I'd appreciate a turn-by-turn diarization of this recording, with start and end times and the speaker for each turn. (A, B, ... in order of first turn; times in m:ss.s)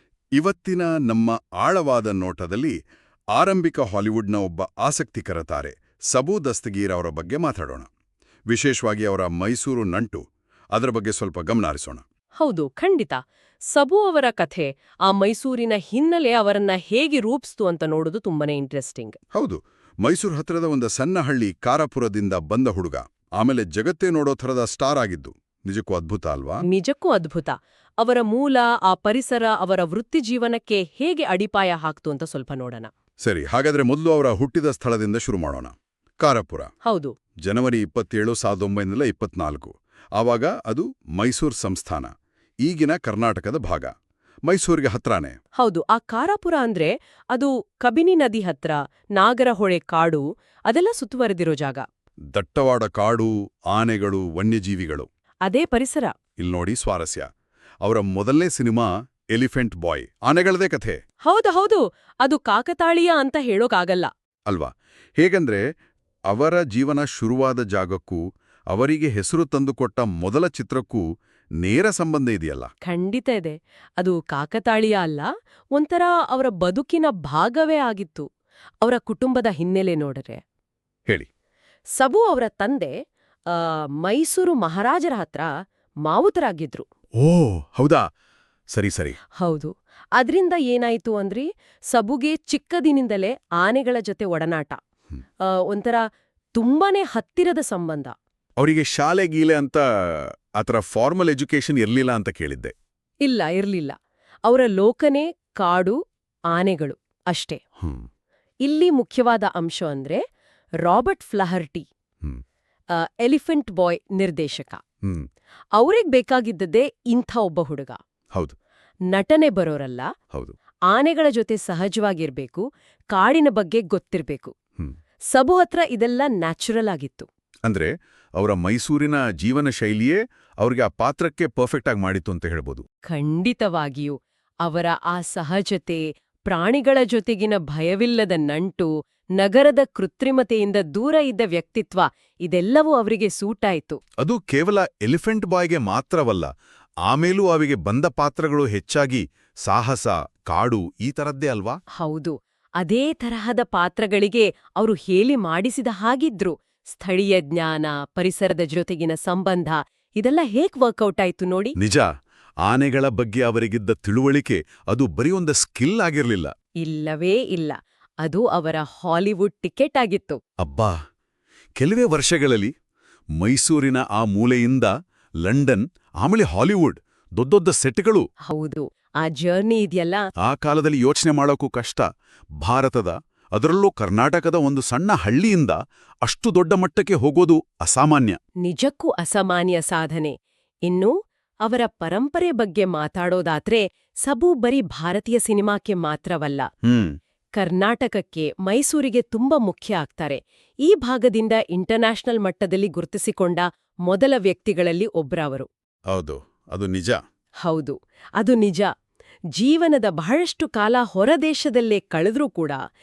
0:00.4-0:02.7 A
0:03.3-0:07.9 A
0:08.5-0:10.2 A
0:10.7-0:12.0 A
0:12.4-0:13.2 B
0:13.7-0:19.2 B
0:19.3-0:26.6 A
0:26.7-0:32.9 B
0:33.2-0:36.7 A
0:36.8-0:37.1 B
0:37.4-0:42.1 A
0:42.6-0:43.9 A
0:44.4-0:45.4 A
0:45.6-0:51.8 B
0:52.3-0:55.1 A
0:55.4-0:56.1 B
0:56.4-0:57.3 A
0:57.8-1:01.0 A
1:01.2-1:04.1 B
1:04.5-1:05.6 A
1:06.3-1:11.0 A
1:11.6-1:12.7 A
1:12.8-1:18.3 B
1:18.8-1:20.4 B
1:22.0-1:22.9 B
1:23.5-1:25.5 B
1:26.0-1:26.8 B
1:27.2-1:28.0 A
1:28.7-1:29.2 A
1:29.4-1:34.8 B
1:35.4-1:36.0 B
1:36.5-1:38.1 B
1:38.6-1:42.7 A
1:43.2-1:46.0 B
1:46.5-1:47.6 B
1:47.8-1:48.0 A
1:48.6-1:50.2 B
1:50.8-1:51.8 B
1:52.9-1:54.8 B
1:55.8-1:58.0 B
1:59.1-2:00.1 B
2:00.9-2:04.5 B
2:05.3-2:07.3 B
2:07.6-2:12.8 A
2:13.1-2:24.0 B
2:24.2-2:26.5 A
2:27.0-2:31.8 A
2:32.0-2:41.7 B
2:41.8-2:42.1 A
2:42.6-2:46.5 A
2:46.8-2:50.4 B
2:50.6-2:50.9 A
2:51.8-2:52.7 A
2:53.4-2:54.9 A
2:55.4-2:58.2 A
2:58.5-3:00.2 B
3:00.4-3:02.0 A
3:02.6-3:08.4 A
3:08.6-3:16.6 B
3:16.8-3:17.2 A
3:17.6-3:25.7 B
3:26.1-3:27.2 A
3:27.6-3:28.9 B
3:29.5-3:32.8 B